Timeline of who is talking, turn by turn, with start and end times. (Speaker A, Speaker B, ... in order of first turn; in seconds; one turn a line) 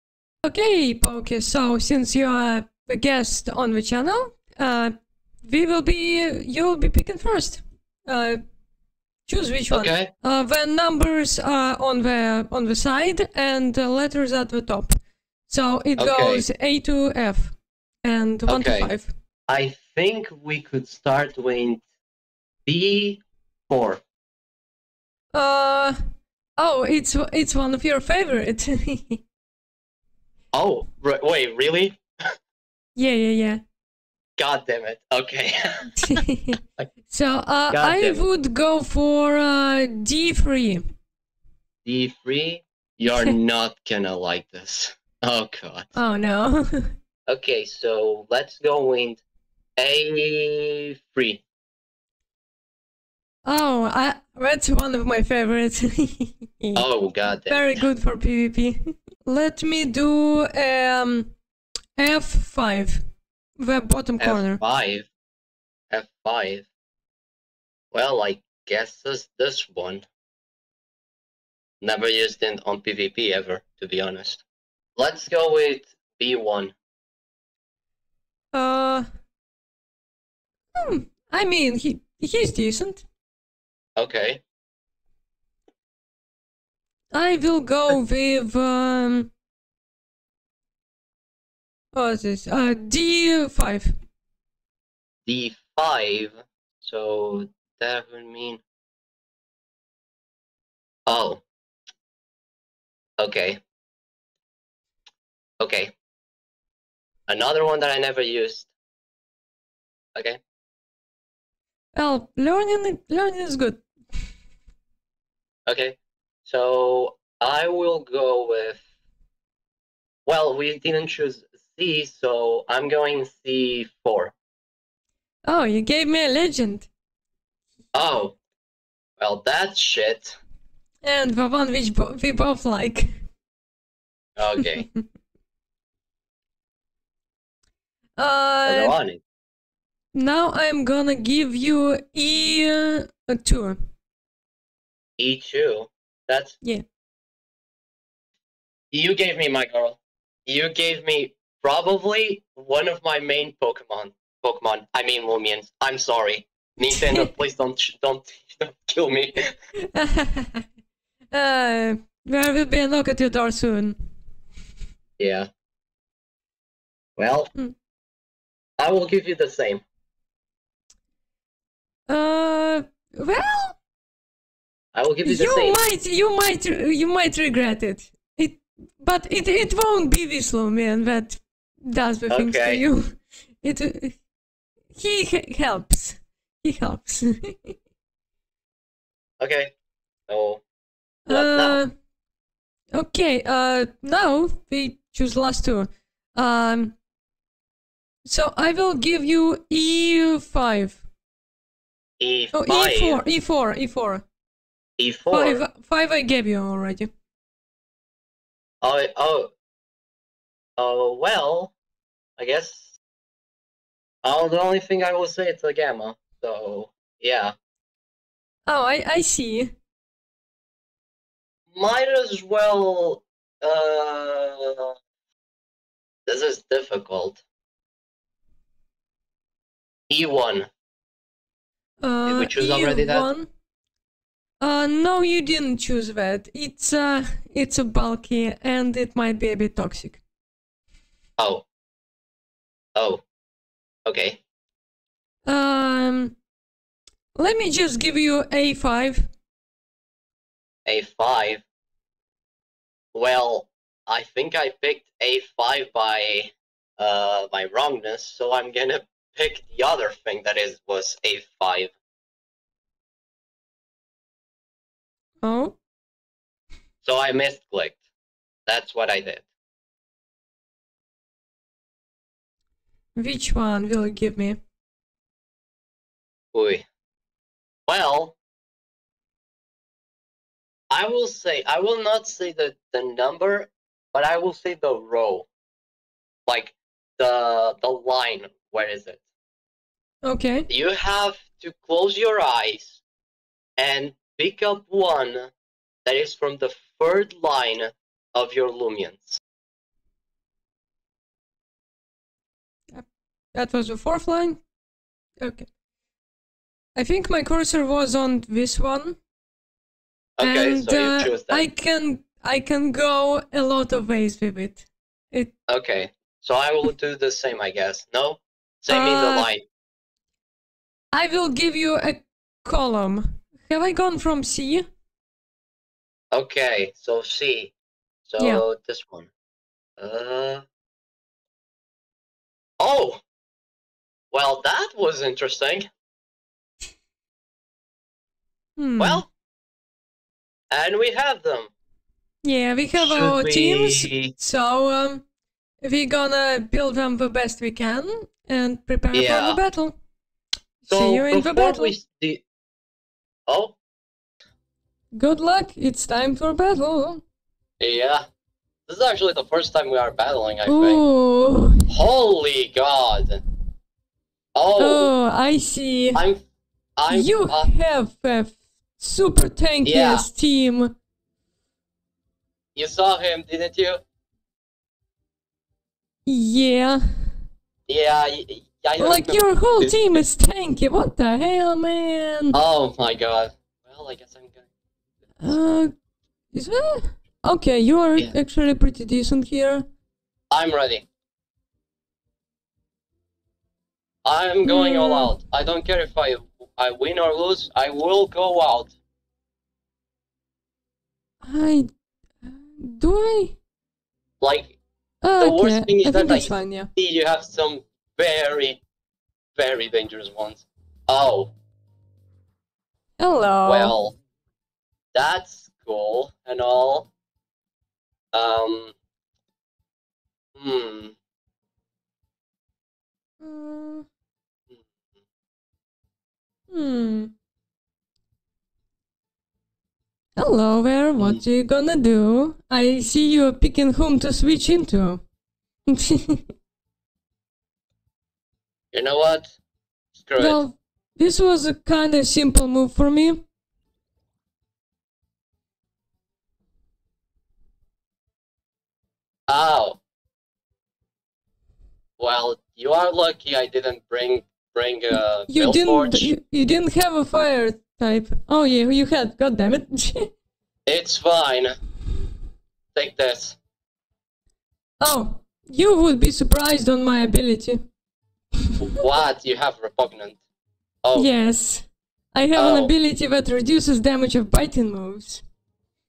Speaker A: 0.4-8.4
Speaker A: 9.3-19.1
Speaker B: 9.7-10.1
Speaker B: 16.0-16.4
Speaker B: 18.5-18.9
Speaker B: 19.5-21.8
Speaker B: 22.7-24.0
Speaker A: 25.3-26.0
Speaker A: 26.6-29.2
Speaker B: 30.5-32.0
Speaker A: 33.0-33.6
Speaker B: 34.4-36.2
Speaker A: 36.0-36.6
Speaker A: 37.1-40.9
Speaker B: 37.7-38.3
Speaker B: 41.9-45.9
Speaker A: 43.0-43.4
Speaker A: 46.0-46.9
Speaker B: 47.3-49.2
Speaker B: 49.8-51.4
Speaker A: 53.5-56.8
Speaker B: 56.8-57.8
Speaker A: 57.5-61.3
Speaker A: 62.0-63.0
Speaker A: 63.6-64.6
Speaker B: 64.2-65.1
Speaker B: 65.9-66.7
Speaker B: 67.9-70.1
Speaker B: 71.8-74.4
Speaker B: 75.0-76.7
Speaker A: 78.5-79.0
Speaker A: 80.8-83.0
Speaker B: 84.0-84.4
Speaker A: 87.1-89.3
Speaker A: 91.9-93.9
Speaker B: 95.3-98.6
Speaker B: 101.1-101.4
Speaker B: 103.2-103.6
Speaker B: 105.6-105.9
Speaker B: 107.3-108.7
Speaker B: 110.2-110.4
Speaker A: 112.0-113.8
Speaker B: 115.7-118.8
Speaker B: 120.3-124.3
Speaker A: 125.5-126.9
Speaker B: 127.9-128.4
Speaker B: 129.2-130.4
Speaker A: 131.0-133.1
Speaker B: 134.4-134.9
Speaker A: 138.2-139.0
Speaker B: 138.7-139.2
Speaker A: 140.1-143.8
Speaker B: 145.2-146.6
Speaker B: 148.9-159.5
Speaker A: 159.9-160.6
Speaker A: 161.3-164.0
Speaker B: 165.2-165.5
Speaker B: 167.2-167.5
Speaker B: 168.8-169.8
Speaker A: 172.1-173.8
Speaker B: 174.9-175.8
Speaker A: 175.2-184.2
Speaker B: 182.3-182.8
Speaker A: 184.9-187.8
Speaker B: 189.4-189.7
Speaker B: 190.3-190.6
Speaker A: 191.3-191.9
Speaker B: 191.3-191.8
Speaker A: 192.9-197.0
Speaker A: 198.2-201.0
Speaker B: 202.2-203.2
Speaker A: 202.5-204.2
Speaker B: 205.0-205.6
Speaker A: 205.3-207.1
Speaker B: 208.8-209.5
Speaker B: 210.8-211.7
Speaker B: 212.4-213.0
Speaker B: 214.2-217.5
Speaker A: 218.7-219.7
Speaker B: 221.7-224.9
Speaker B: 226.3-227.4
Speaker B: 230.1-230.7
Speaker A: 232.0-233.5
Speaker B: 232.3-233.3
Speaker A: 234.6-240.2
Speaker B: 241.4-241.7
Speaker B: 243.0-243.2
Speaker B: 244.1-244.4
Speaker A: 245.5-246.4
Speaker A: 247.3-249.3
Speaker B: 250.9-251.6
Speaker B: 253.1-261.9
Speaker A: 265.4-265.8
Speaker B: 267.0-268.0
Speaker B: 268.7-269.5
Speaker A: 273.2-274.6
Speaker B: 276.5-276.9
Speaker B: 277.9-278.4
Speaker B: 280.9-285.5
Speaker B: 286.5-289.2
Speaker A: 290.2-290.7
Speaker B: 290.7-293.0
Speaker B: 293.8-295.5
Speaker B: 296.1-299.4
Speaker A: 302.9-304.6
Speaker A: 305.4-305.7
Speaker A: 307.0-309.2
Speaker B: 310.4-311.7
Speaker A: 310.4-315.5
Speaker B: 315.7-319.6
Speaker A: 318.9-319.5
Speaker A: 321.1-324.9
Speaker B: 326.3-327.7
Speaker B: 328.3-329.3
Speaker A: 328.4-328.6
Speaker B: 330.0-330.6
Speaker B: 332.8-333.2
Speaker B: 334.3-335.9
Speaker A: 338.8-339.2
Speaker B: 339.0-339.3
Speaker B: 340.7-341.7
Speaker A: 342.4-345.2
Speaker B: 342.9-344.3
Speaker A: 345.8-349.9
Speaker B: 349.1-349.6
Speaker A: 350.8-351.9
Speaker B: 350.9-352.4
Speaker B: 353.5-353.8
Speaker A: 355.1-357.2
Speaker B: 357.8-358.2
Speaker B: 358.9-361.0
Speaker A: 360.7-361.9
Speaker B: 361.9-363.4
Speaker B: 364.6-365.1
Speaker A: 364.8-366.2
Speaker B: 366.1-366.4
Speaker B: 367.0-367.7
Speaker A: 367.1-370.9
Speaker B: 369.8-370.3
Speaker B: 372.8-374.0
Speaker A: 376.3-377.0
Speaker B: 377.9-380.2
Speaker A: 379.0-382.6
Speaker B: 382.5-384.7
Speaker A: 385.4-385.9
Speaker A: 386.5-389.9
Speaker B: 390.5-391.1
Speaker B: 394.2-398.9
Speaker A: 394.6-395.3
Speaker A: 401.4-401.9
Speaker A: 402.4-403.6
Speaker B: 404.4-404.8
Speaker A: 405.2-406.9
Speaker B: 405.4-408.8
Speaker B: 409.6-411.5
Speaker A: 413.2-413.9
Speaker B: 413.6-414.2
Speaker B: 415.1-417.1
Speaker B: 418.3-419.0
Speaker B: 420.6-421.1
Speaker A: 423.4-424.1
Speaker A: 426.7-427.3
Speaker A: 430.4-435.2
Speaker B: 431.2-431.4
Speaker A: 435.9-436.4
Speaker B: 438.9-439.6
Speaker B: 440.2-440.6
Speaker A: 440.4-443.4
Speaker B: 449.5-450.0
Speaker B: 452.2-456.4
Speaker A: 455.5-460.3
Speaker B: 460.9-461.8
Speaker B: 462.9-463.6
Speaker A: 465.0-467.8
Speaker B: 468.8-470.4
Speaker B: 471.0-471.3
Speaker A: 471.1-475.4
Speaker B: 472.6-472.9